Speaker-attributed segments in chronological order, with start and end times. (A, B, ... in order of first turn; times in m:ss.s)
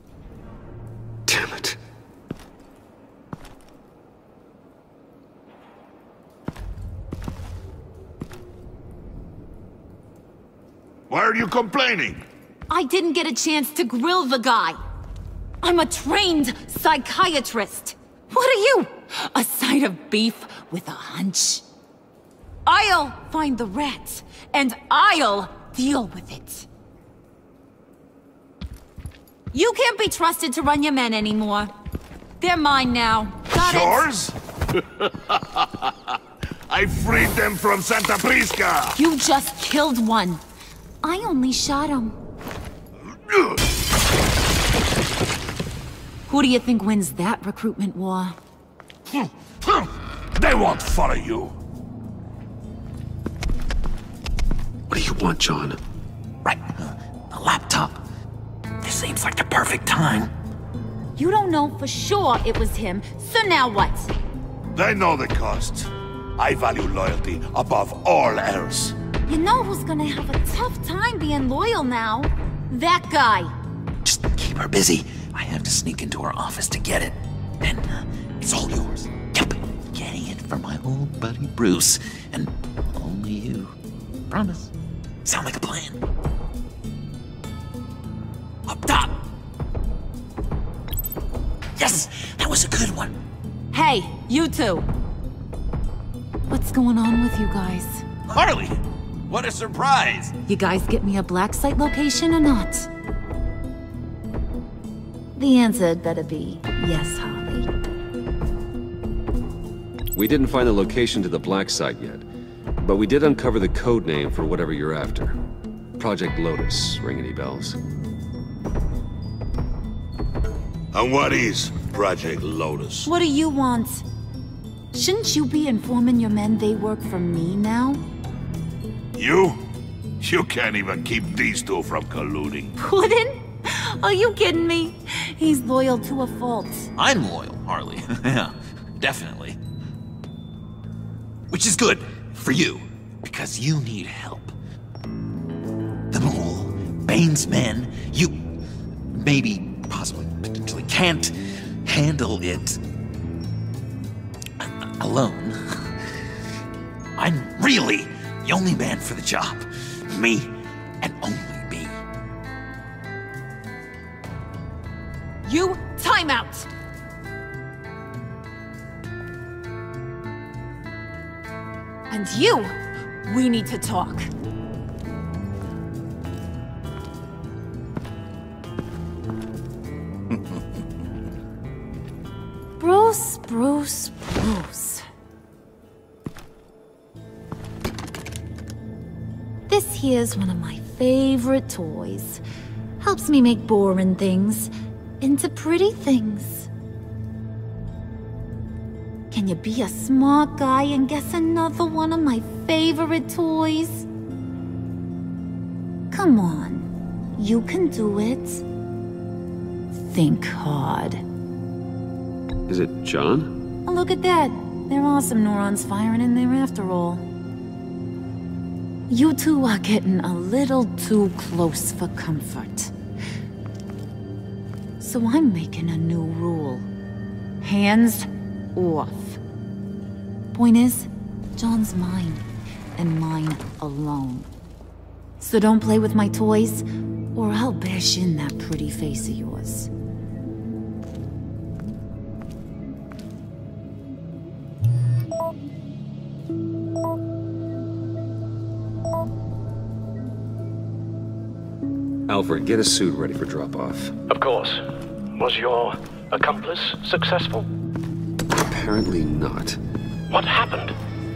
0:01.3-0:01.8 A
0:11.1-0:12.2 B
0:12.7-0:14.8 C
0:15.6-0:21.6 C
0:22.6-0:26.7 C
0:29.5-0:31.7 C
0:32.4-0:34.1 C
0:33.6-0:34.3 B
0:35.0-0:36.1 B
0:36.7-0:39.0 B
0:38.9-0:40.4 C
0:41.0-0:42.2 C
0:43.3-0:43.6 B
0:46.3-0:48.4 C
0:50.4-0:51.5 B
0:54.9-0:55.8 A
0:56.4-0:58.0 D
0:58.8-1:00.3 D
1:01.2-1:04.1 C
1:04.7-1:08.9 B
1:09.3-1:13.5 C
1:14.0-1:23.7 D
1:24.3-1:24.7 D
1:25.2-1:26.0 D
1:28.7-1:29.2 D
1:31.8-1:33.2 D
1:33.7-1:34.8 C
1:36.5-1:38.0 C
1:38.3-1:38.8 D
1:39.3-1:40.3 D
1:40.5-1:42.9 C
1:45.4-1:47.7 C
1:50.1-1:52.3 A
1:52.8-1:55.4 A
1:56.0-1:57.8 A
2:00.9-2:03.1 B
2:03.0-2:04.0 C
2:04.9-2:08.0 C
2:09.2-2:09.6 B
2:10.2-2:12.7 B
2:12.8-2:16.9 C
2:17.0-2:19.6 D
2:21.5-2:24.5 D
2:26.1-2:28.3 D
2:29.1-2:32.8 D
2:34.6-2:35.9 D
2:37.2-2:41.9 D
2:45.4-2:46.7 C
2:52.1-2:52.7 C
2:53.2-2:54.3 C
3:02.8-3:05.0 C
3:09.7-3:12.4 C
3:13.0-3:16.7 C
3:19.3-3:24.1 C
3:26.1-3:28.6 C
3:29.9-3:31.2 C
3:32.7-3:33.5 A
3:33.8-3:37.2 C
3:39.1-3:42.9 C
3:45.0-3:46.9 C
3:47.6-3:49.4 C
3:50.5-3:52.4 C
3:53.0-3:54.5 C
3:55.4-3:59.9 C
4:12.3-4:14.1 A
4:14.3-4:14.8 E
4:15.3-4:17.7 E
4:18.5-4:19.8 A
4:20.3-4:20.9 E